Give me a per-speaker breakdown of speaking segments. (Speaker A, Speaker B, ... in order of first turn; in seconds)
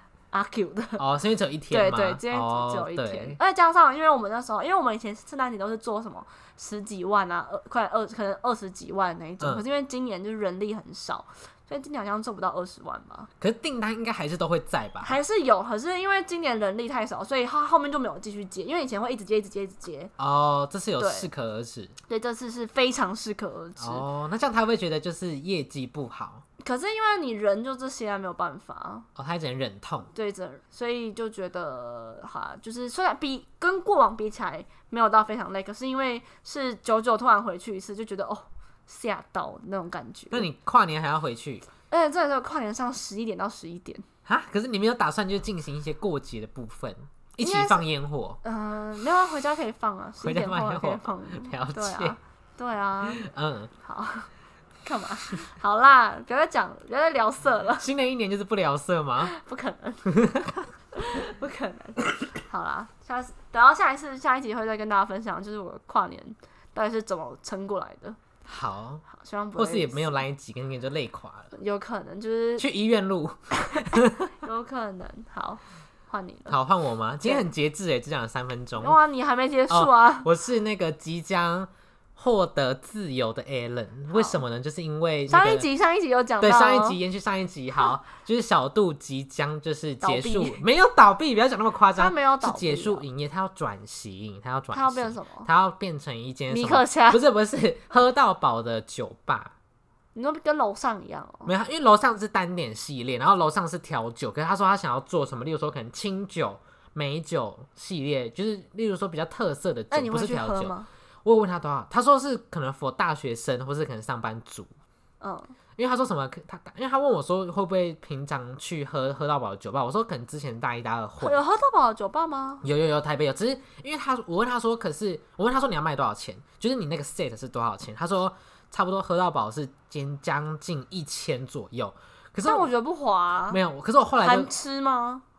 Speaker A: 0.3-1.0, 1.7-13.3, 15.0-20.1, 21.0-21.3, 22.1-24.1, 26.6-29.1, 30.1-40.5, 41.9-44.0, 47.4-47.9, 48.4-53.2, 53.8-54.3, 54.8-57.9, 59.2-68.2, 69.1-70.2, 71.5-72.7, 73.7-76.6, 78.8-80.3, 84.1-84.4, 85.3-87.0, 90.0-90.6, 92.0-93.0, 94.7-95.5, 96.5-97.2, 100.2-101.5, 109.9-110.9, 115.2-115.5, 121.2-122.6, 132.4-133.6, 134.2-135.2
Speaker B: 1.0-3.4, 13.4-15.2, 20.2-21.9, 23.8-26.4, 29.2-30.1, 40.3-41.7, 44.3-48.4, 50.2-52.2, 53.1-53.7, 57.8-59.3, 60.1-60.4, 68.5-69.0, 69.6-71.5, 72.6-74.3, 76.5-79.0, 79.7-85.7, 86.4-99.5, 101.5-110.7, 111.2-114.7, 115.8-121.4, 122.6-132.7, 133.5-134.5